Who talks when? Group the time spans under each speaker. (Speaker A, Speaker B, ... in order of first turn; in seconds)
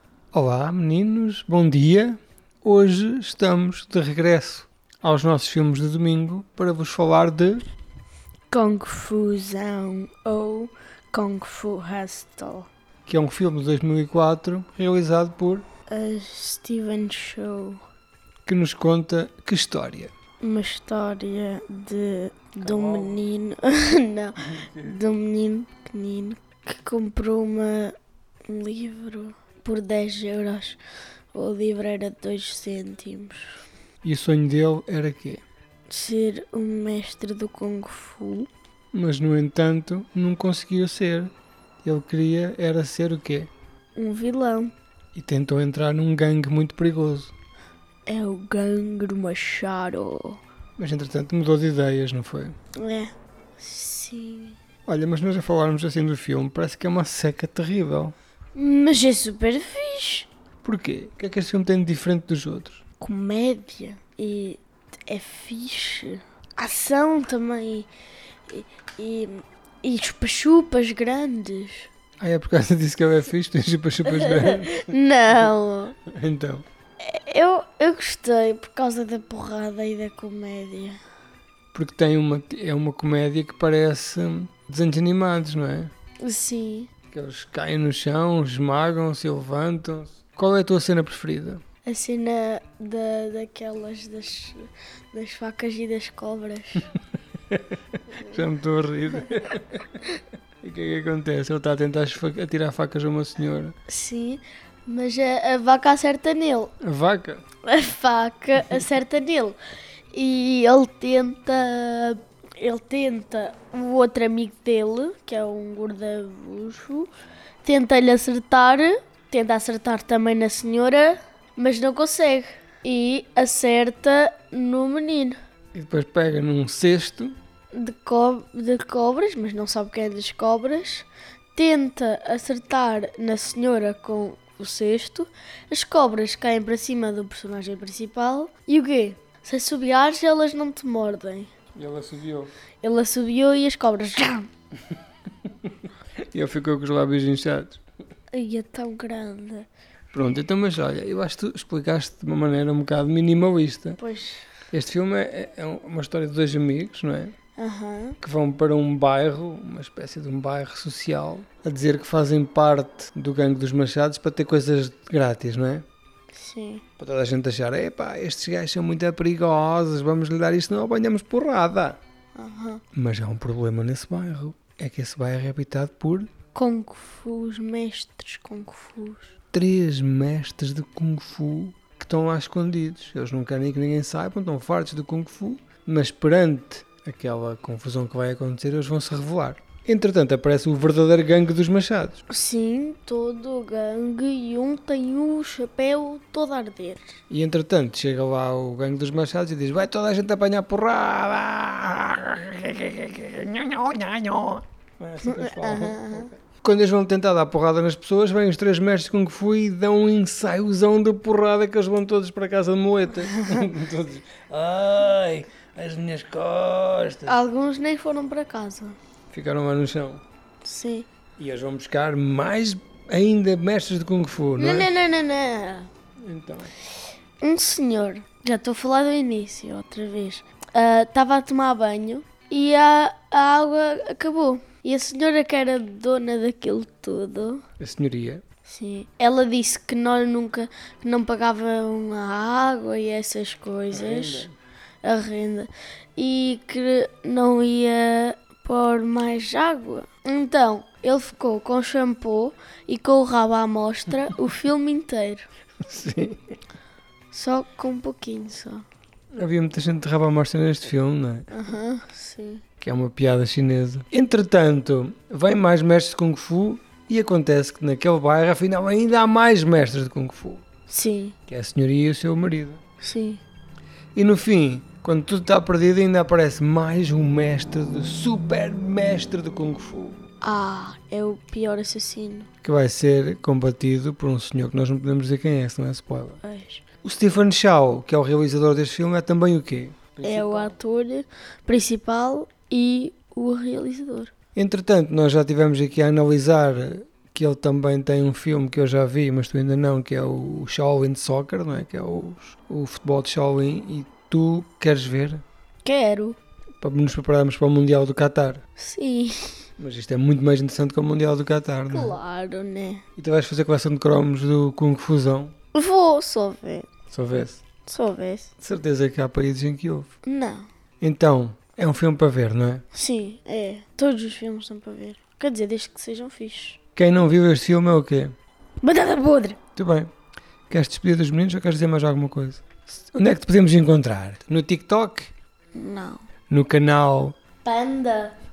Speaker A: 0.3-7.7, 13.1-15.7, 18.5-20.1, 22.6-23.2, 24.5-25.0, 34.0-35.4, 38.9-41.3, 41.8-43.5, 45.1-47.3, 50.8-52.6, 54.9-58.1, 60.6-62.8, 72.2-75.5, 76.1-76.7, 81.7-85.9, 87.1-91.6, 98.2-100.0, 100.6-103.8, 106.8-107.4, 125.7-127.4, 141.8-142.5, 146.2-147.8, 150.1-154.0, 154.7-157.3, 158.2-165.8, 167.0-172.0, 172.9-176.3, 179.5-192.2, 197.3-217.4, 219.3-220.2, 221.4-224.9, 226.2-226.7, 237.8-238.4, 243.9-244.5, 255.8-256.4, 259.3-261.5, 262.8-270.6, 271.5-272.8, 274.1-280.2, 282.6-286.4, 287.0-290.8, 294.6-305.4, 306.8-308.6, 309.8-312.2, 313.2-315.5, 317.1-317.6, 318.6-320.1, 321.0-322.8, 327.0-328.3, 329.8-330.1, 330.7-335.3, 336.5-337.4
Speaker B: 8.5-12.7, 15.9-17.8, 20.4-28.0, 28.5-30.8, 31.3-33.6, 35.9-38.5, 44.0-44.7, 48.1-50.4, 52.8-54.6, 58.5-60.3, 63.0-67.9, 68.5-71.9, 74.1-76.0, 77.0-81.0, 86.2-86.9, 91.8-96.9, 98.1-98.4, 103.9-106.7, 107.6-109.6, 110.1-117.1, 117.6-125.4, 127.7-141.5, 142.8-144.5, 148.3-149.7, 154.0-154.4, 157.6-158.2, 166.3-166.8, 172.4-172.8, 176.5-179.3, 192.3-197.2, 205.2-206.3, 213.3-213.7, 217.3-219.0, 220.6-221.1, 224.6-225.9, 227.4-237.6, 238.7-244.5, 245.0-255.5, 257.3-258.9, 261.5-262.6, 270.9-271.4, 273.0-273.4, 280.4-282.5, 286.4-286.9, 290.2-294.3, 305.8-306.4, 308.8-309.7, 311.9-313.0, 315.8-316.9, 317.9-318.5, 320.2-320.7, 322.9-326.8, 328.8-329.6, 335.7-336.2, 337.6-338.4